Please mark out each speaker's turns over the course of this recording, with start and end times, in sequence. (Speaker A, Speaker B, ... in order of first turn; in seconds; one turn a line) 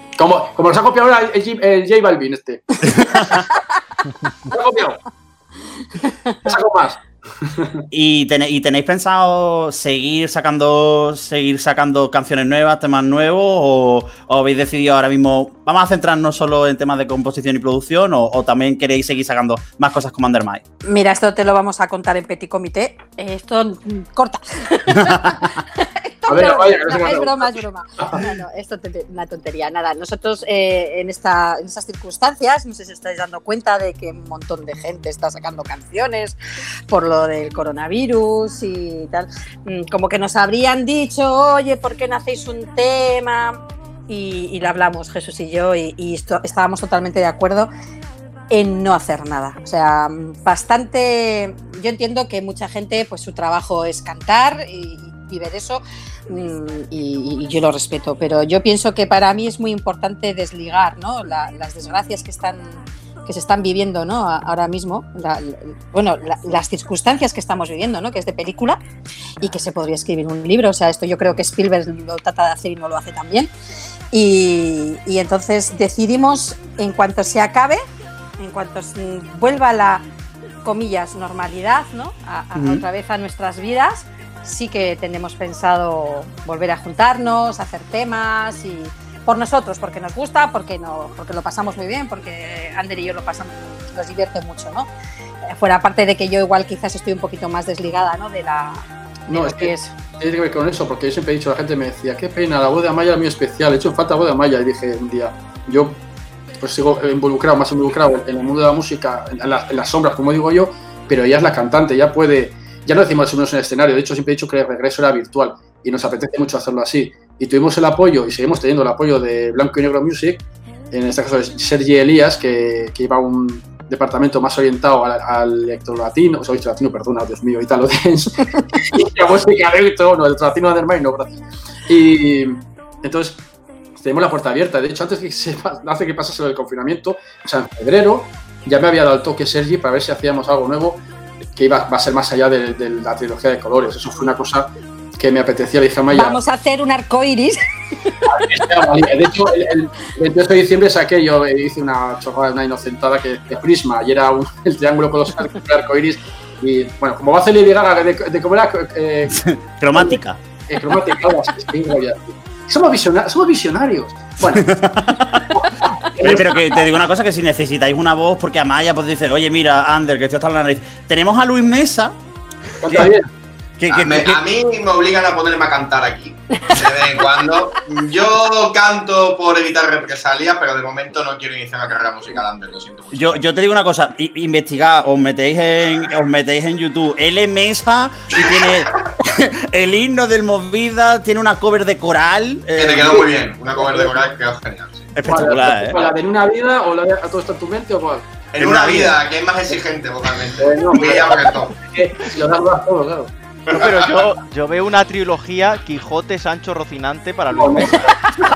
Speaker A: 0.2-3.3
Speaker A: 4.5-5.0
Speaker A: 6.4-7.8
Speaker B: 7.9-20.6
Speaker C: 20.9-36.4
Speaker A: 26.3-28.2
Speaker C: 36.9-47.7
Speaker C: 48.5-68.8
Speaker C: 69.4-73.5
Speaker C: 74.1-77.8
Speaker C: 78.4-80.0
Speaker C: 80.6-94.9
Speaker B: 82.5-82.8
Speaker C: 95.5-99.9
Speaker A: 99.3-106.0
Speaker A: 106.6-133.4
Speaker A: 134.0-141.0
Speaker A: 141.6-146.4
Speaker C: 146.1-148.3
Speaker A: 148.2-164.9
Speaker B: 159.3-160.4
Speaker B: 164.6-165.4
Speaker A: 165.5-166.6
Speaker B: 166.2-172.2
Speaker A: 172.8-173.3
Speaker B: 173.8-174.4
Speaker D: 173.9-183.4
Speaker B: 183.1-193.3
Speaker D: 192.8-195.1
Speaker A: 193.8-194.1
Speaker B: 195.1-196.0
Speaker A: 195.2-198.4
Speaker D: 198.5-201.7
Speaker B: 198.6-199.1
Speaker A: 200.6-203.3
Speaker D: 203.7-204.2
Speaker E: 203.7-208.1
Speaker A: 207.5-208.2